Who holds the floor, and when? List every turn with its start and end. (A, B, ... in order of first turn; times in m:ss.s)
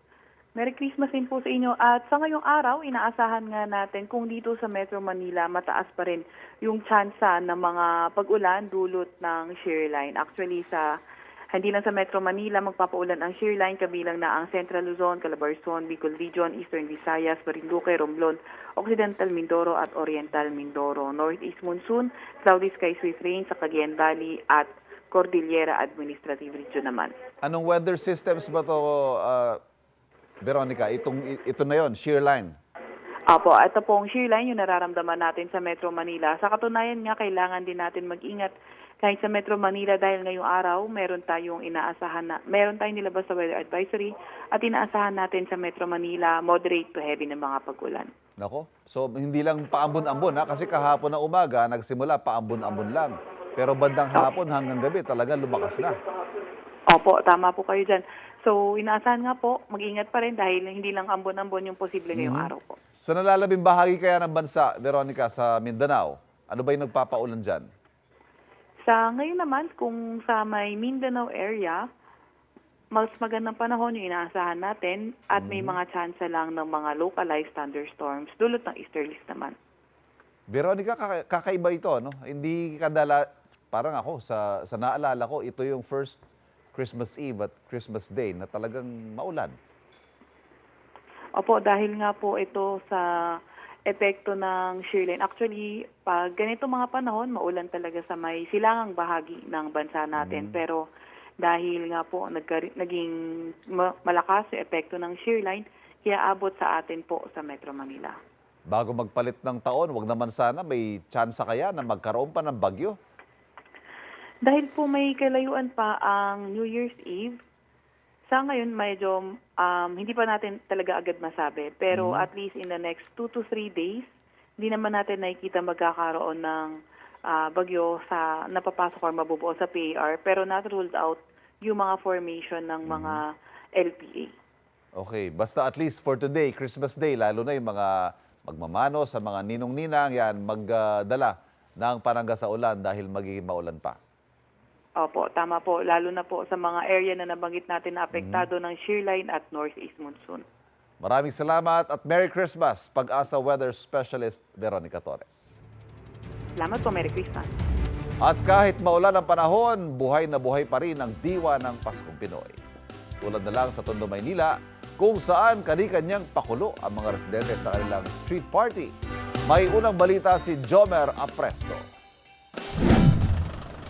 0:00.6-0:11.0 A
0:11.5-0:27.1 A
0:27.4-0:29.6 B
0:30.4-0:32.6 B
0:33.3-0:48.1 A
0:48.4-0:56.0 B
0:56.9-1:02.8 A
1:02.1-1:02.5 B
1:03.0-1:07.7 B
1:08.8-1:11.9 A
1:13.0-1:19.6 A
1:15.4-1:15.8 B
1:20.5-1:26.2 B
1:26.7-1:29.6 B
1:31.4-1:33.1 A
1:33.9-1:40.8 A
1:40.2-1:40.6 B
1:41.4-1:43.1 A
1:43.7-1:48.2 A
1:48.7-1:53.0 B
1:54.4-1:57.4 A
1:58.3-2:04.1 A
2:01.9-2:02.3 B
2:04.6-2:06.8 A
2:07.3-2:14.3 A
2:12.9-2:13.2 B
2:15.0-2:24.0 B
2:25.0-2:30.4 A
2:28.1-2:28.5 B
2:31.0-2:35.5 B
2:36.6-2:37.5 A
2:38.2-2:42.6 B
2:43.2-2:48.9 B
2:49.5-2:51.8 B